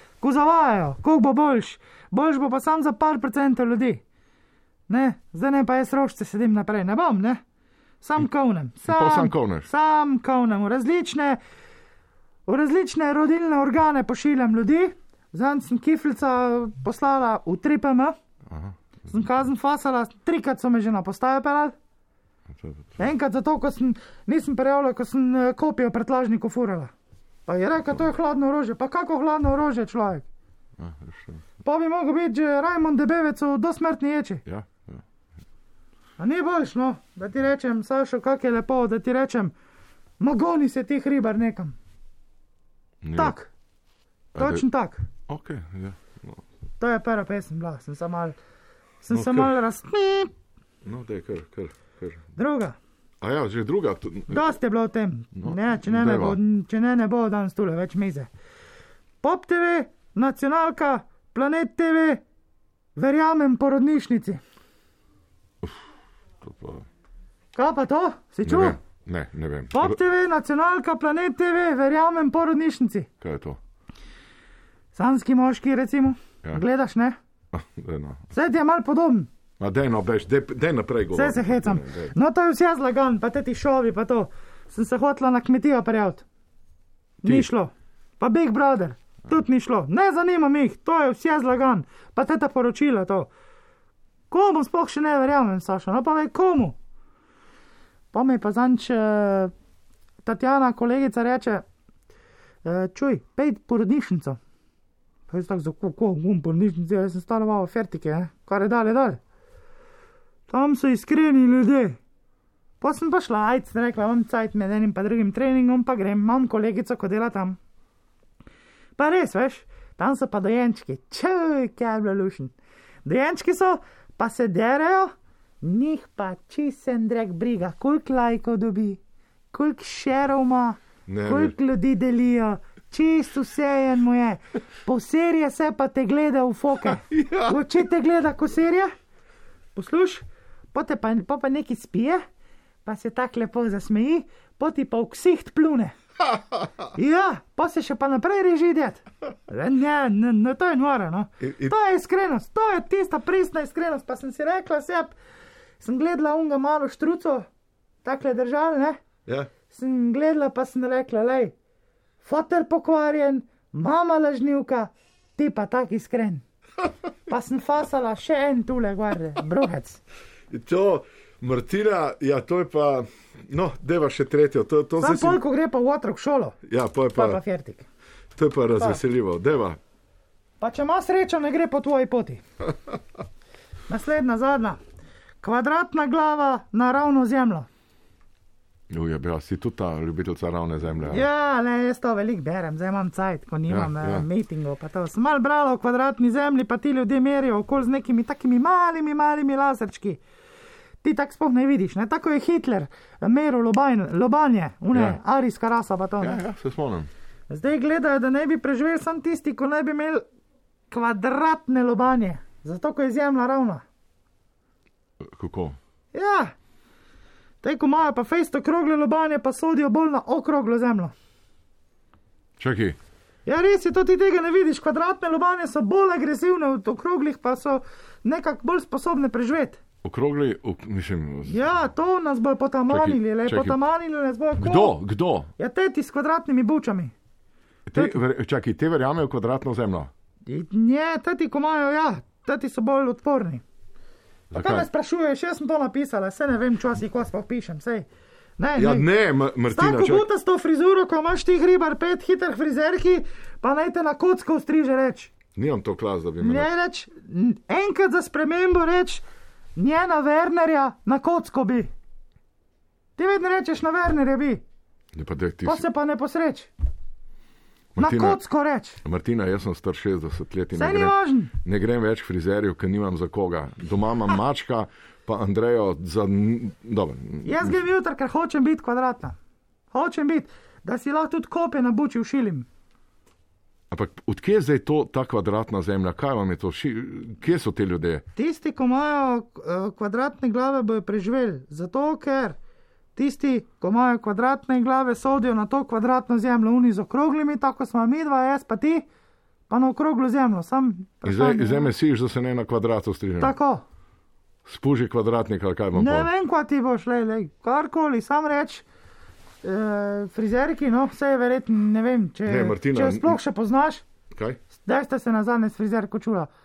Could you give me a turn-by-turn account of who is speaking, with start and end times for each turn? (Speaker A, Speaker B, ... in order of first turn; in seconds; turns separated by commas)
Speaker A: 0.2-4.0, Speaker A: 4.9-7.4, Speaker A: 8.0-11.4, Speaker B: 8.9-9.7, Speaker A: 12.5-18.2, Speaker B: 18.5-19.2, Speaker A: 19.1-21.8, Speaker B: 22.5-23.0, Speaker A: 23.0-26.9, Speaker A: 27.5-30.2, Speaker B: 30.8-31.4, Speaker A: 31.6-34.4, Speaker B: 34.5-35.0, Speaker A: 36.2-39.5, Speaker A: 40.2-41.8, Speaker B: 43.0-43.4, Speaker A: 43.1-43.5, Speaker B: 44.4-44.6, Speaker A: 44.4-45.0, Speaker B: 45.3-46.4, Speaker A: 46.8-48.4, Speaker A: 49.0-50.3, Speaker B: 49.1-49.5, Speaker B: 50.9-52.2, Speaker A: 52.4-52.8, Speaker B: 53.2-54.4, Speaker A: 54.3-58.3, Speaker B: 55.4-56.4, Speaker A: 59.2-62.2, Speaker A: 63.0-64.4, Speaker B: 66.4-66.9, Speaker A: 67.5-68.8, Speaker B: 68.4-70.0, Speaker A: 69.7-73.1, Speaker B: 73.2-73.6, Speaker A: 74.9-77.2, Speaker B: 77.5-78.2, Speaker A: 78.3-79.3, Speaker B: 79.6-82.1, Speaker A: 81.1-86.2, Speaker A: 87.2-93.3, Speaker A: 94.3-96.8, Speaker A: 98.1-99.5, Speaker A: 100.2-101.6, Speaker A: 102.6-104.4, Speaker A: 105.3-109.2, Speaker A: 110.5-112.0, Speaker A: 112.8-117.6, Speaker A: 119.0-122.5, Speaker A: 123.0-129.0, Speaker A: 129.5-138.9, Speaker B: 131.1-131.6, Speaker B: 137.1-137.6, Speaker A: 139.8-142.2, Speaker A: 142.8-145.9, Speaker A: 147.0-155.1, Speaker B: 151.4-151.7, Speaker A: 155.8-157.5, Speaker A: 158.0-159.0, Speaker B: 159.3-159.5, Speaker A: 159.7-161.5, Speaker A: 162.2-166.4, Speaker A: 167.3-170.0, Speaker B: 170.5-175.4, Speaker A: 175.0-176.6, Speaker B: 176.7-177.4, Speaker A: 177.2-177.8, Speaker B: 178.4-179.8, Speaker A: 180.6-182.4, Speaker A: 183.9-184.8, Speaker A: 185.4-187.7, Speaker B: 188.9-191.3, Speaker A: 191.1-200.2, Speaker B: 193.7-194.2, Speaker A: 201.0-206.4, Speaker B: 204.9-205.2, Speaker B: 206.2-207.1, Speaker A: 207.5-210.2, Speaker A: 210.9-213.8, Speaker B: 215.2-215.8, Speaker A: 216.1-216.5, Speaker A: 217.6-221.1, Speaker B: 222.6-223.0, Speaker A: 223.5-229.8, Speaker B: 230.0-231.6, Speaker A: 231.5-235.0, Speaker B: 232.9-233.8, Speaker B: 234.6-235.5, Speaker A: 235.6-237.1, Speaker B: 237.9-240.1, Speaker A: 240.5-243.6, Speaker B: 244.5-244.9, Speaker A: 244.5-248.1, Speaker A: 248.6-249.1, Speaker B: 248.8-250.3, Speaker A: 249.7-255.3, Speaker B: 255.6-256.7, Speaker A: 256.4-259.2, Speaker A: 259.8-261.9, Speaker A: 263.2-264.6, Speaker B: 265.1-265.9, Speaker A: 265.6-266.7, Speaker B: 267.9-268.4, Speaker A: 268.0-269.0, Speaker B: 269.0-277.7, Speaker A: 270.7-271.5, Speaker A: 277.4-279.4, Speaker A: 279.9-282.7, Speaker B: 283.9-288.3, Speaker A: 288.4-292.6, Speaker A: 293.2-299.1, Speaker A: 299.7-301.9, Speaker B: 301.2-303.6, Speaker A: 303.4-303.8, Speaker B: 304.7-306.3, Speaker A: 305.9-308.8, Speaker A: 309.6-314.0, Speaker B: 312.4-313.4, Speaker B: 314.4-314.6, Speaker A: 314.8-316.5